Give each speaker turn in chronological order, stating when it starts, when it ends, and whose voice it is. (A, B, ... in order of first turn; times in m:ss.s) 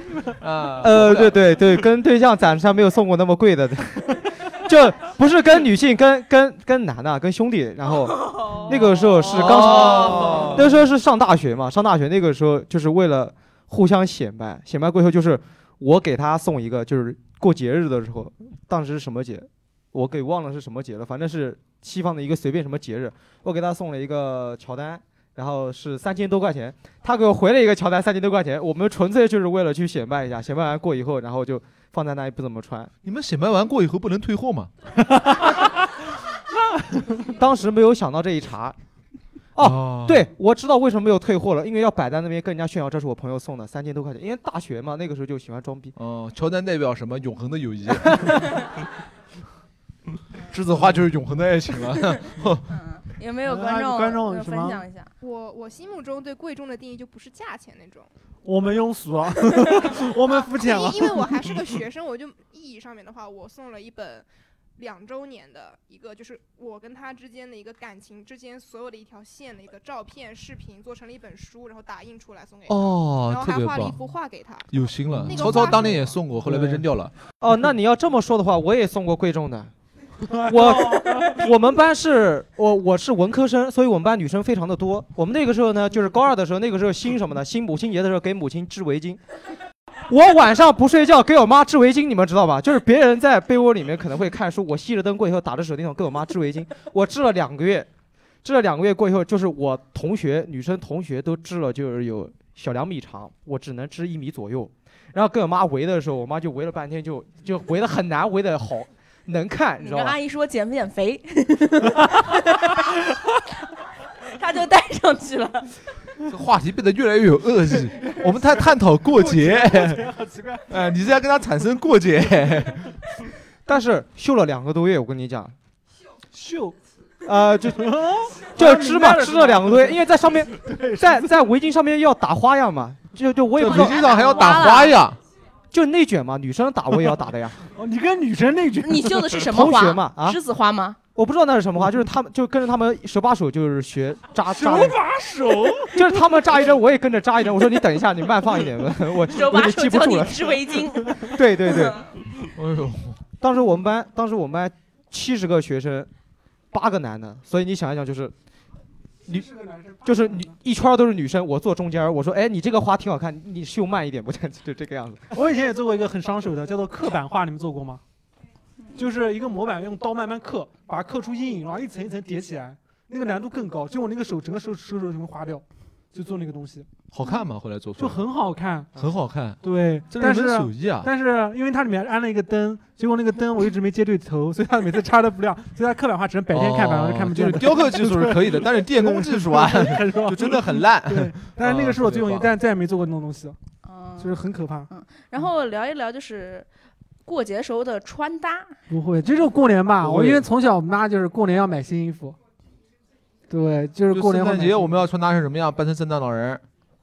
0:00.3-0:01.4 A
0:00.8-0:32.9 B
0:09.2-0:10.6 A
0:33.0-0:34.7 A
0:37.3-0:38.8 B
0:39.6-0:45.9 B
0:39.6-0:40.3 A
0:46.0-0:48.5 A
0:50.5-0:52.6 A
0:52.7-0:55.1 C
0:53.5-0:54.8 D
0:55.2-0:58.1 E
0:58.4-1:01.4 D
1:00.5-1:16.1 E
1:12.7-1:14.0 A
1:14.7-1:17.1 A
1:15.1-1:15.9 D
1:16.4-1:16.8 D
1:17.4-1:19.7 B
1:20.2-1:21.4 D
1:20.5-1:29.2 B
1:30.1-1:37.9 B
1:38.4-1:50.2 B
1:49.8-1:52.9 C
1:54.3-1:55.7 C
1:56.3-2:00.0 A
1:58.0-2:00.7 D
2:00.7-2:02.9 A
2:03.6-2:05.6 B
2:06.3-2:06.8 D
2:07.2-2:14.6 B
2:07.8-2:10.0 D
2:10.6-2:11.3 D
2:13.6-2:15.2 A
2:13.6-2:14.9 C
2:15.7-2:17.6 B
2:17.7-2:19.4 D
2:18.8-2:21.0 C
2:19.5-2:20.4 B
2:21.1-2:25.0 B
2:24.5-2:26.1 D
2:25.9-2:32.0 B
2:29.3-2:31.9 C
2:32.6-2:33.2 A
2:33.4-2:36.1 B
2:36.7-2:38.3 B
2:39.3-2:40.5 D
2:40.0-2:45.3 B
2:45.3-2:48.0 D
2:49.0-2:56.9 D
2:57.1-2:58.2 A
2:58.0-2:58.9 D
2:59.0-3:01.1 A
2:59.6-3:13.6 D
3:06.5-3:12.5 A
3:13.8-3:14.4 C
3:14.2-3:14.9 D
3:14.9-3:16.7 C
3:17.2-3:18.8 C
3:18.9-3:22.4 D
3:20.0-3:20.4 A
3:23.5-3:25.0 D
3:24.1-3:26.6 A